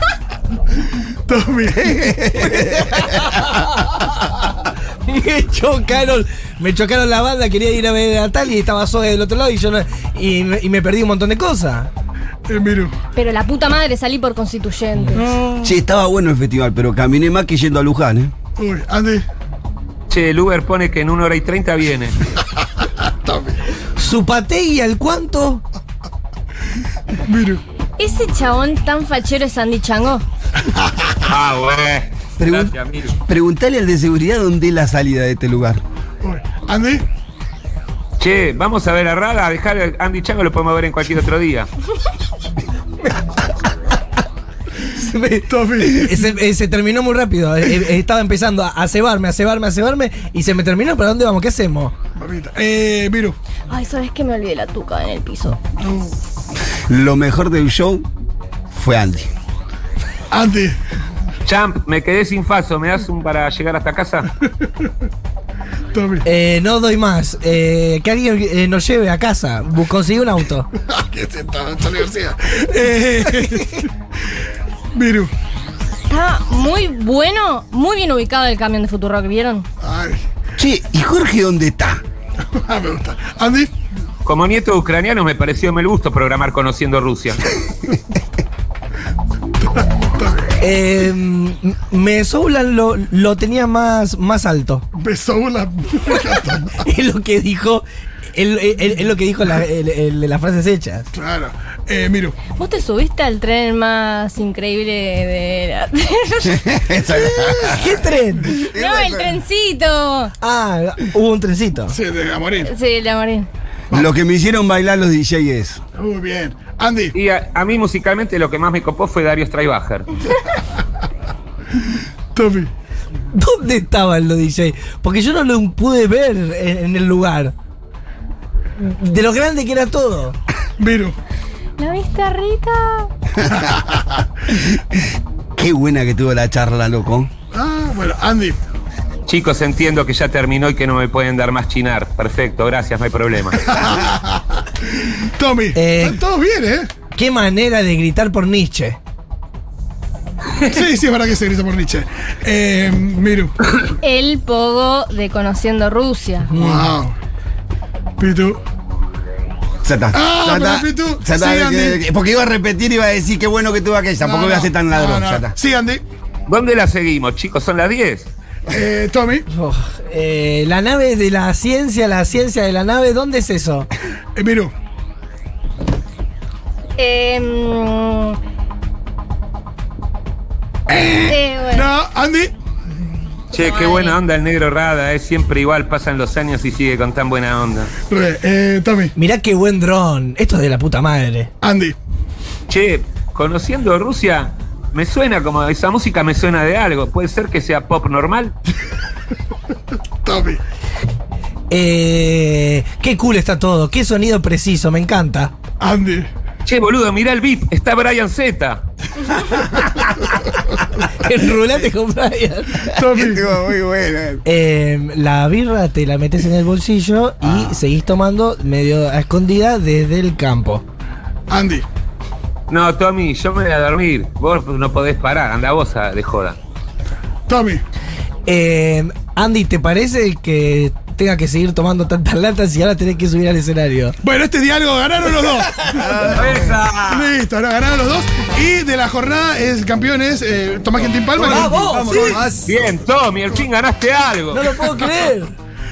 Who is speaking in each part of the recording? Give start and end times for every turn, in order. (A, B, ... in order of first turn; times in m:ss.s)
0:01.3-0:02.1 A
0:01.8-0:02.6 B
0:02.8-0:04.1 C
0:05.0-0:11.9 C
0:12.5-0:12.9 A
0:13.1-0:15.3 D
0:15.1-0:15.8 A
0:15.6-0:18.3 B
0:18.6-0:19.2 A
0:20.1-0:22.2 E
0:23.0-0:23.6 A
0:24.0-0:25.6 C
0:27.3-0:27.6 A
0:28.0-0:30.2 D
0:31.3-0:33.2 E
0:32.4-0:35.8 B
0:36.2-0:37.0 A
0:38.2-0:41.7 E
0:45.0-0:51.9 C
0:45.5-0:46.1 A
0:52.2-0:53.4 A
0:53.7-0:55.6 D
0:55.8-0:56.2 A
0:56.9-0:58.1 B
0:58.7-0:59.3 B
1:00.3-1:00.8 A
1:01.5-1:04.3 E
1:05.9-1:06.2 A
1:06.2-1:10.7 C
1:10.8-1:13.9 A
1:14.9-1:15.3 A
1:16.1-1:19.7 D
1:19.8-1:20.2 A
1:20.6-1:22.0 B
1:22.6-1:23.7 A
1:24.2-1:27.4 E
1:29.6-1:30.5 A
1:30.6-1:34.8 C
1:35.0-1:36.8 A
1:36.7-1:41.1 C
1:41.1-1:42.4 A
1:42.5-1:46.6 D
1:46.5-1:48.0 B
1:47.2-1:48.6 C
1:48.5-1:50.3 D
1:48.7-1:49.4 B
1:50.4-1:52.0 C
1:51.9-1:52.7 A
1:52.6-1:53.5 D
1:53.9-1:55.8 B
1:56.0-1:57.2 A
1:57.1-2:00.1 E
2:02.4-2:02.7 A
2:03.3-2:07.5 C
2:08.8-2:10.4 C
2:10.8-2:11.2 A
2:11.8-2:13.1 D
2:14.5-2:14.8 B
2:15.6-2:17.3 B
2:17.5-2:18.6 A
2:19.3-2:23.6 E
2:23.6-2:24.6 A
2:25.4-2:26.9 A
2:25.7-2:26.2 C
2:27.1-2:29.0 C
2:30.6-2:33.7 A
2:34.0-2:36.5 D
2:36.5-2:36.9 C
2:36.6-2:37.2 A
2:38.2-2:38.6 A
2:39.8-2:45.5 B
2:40.1-2:42.0 A
2:44.2-2:46.0 A
2:46.5-2:48.3 E
2:48.7-2:49.5 A
2:49.5-2:53.9 C
2:54.4-2:54.7 A
2:57.0-2:58.4 D
3:01.2-3:01.9 D
3:01.3-3:02.5 A
3:03.5-3:07.9 E
3:03.5-3:04.2 D
3:08.1-3:09.1 A
3:09.2-3:11.5 C
3:11.6-3:12.0 A
3:12.7-3:18.5 E
3:20.2-3:20.6 A
3:21.7-3:25.5 C
3:25.8-3:26.3 A
3:26.6-3:28.8 E
3:31.2-3:33.0 C
3:33.0-3:33.4 A
3:33.1-3:34.4 B
3:34.4-3:40.8 C
3:37.4-3:37.8 B
3:41.5-3:41.9 A
3:42.7-3:46.6 E
3:47.5-3:47.8 A
3:48.5-3:54.2 C
3:54.2-3:56.3 A
3:56.0-3:56.9 B
3:56.3-3:57.3 E
3:57.1-4:02.5 A
4:01.4-4:02.8 B
4:01.4-4:02.4 C
4:02.6-4:04.9 E
4:04.5-4:05.5 C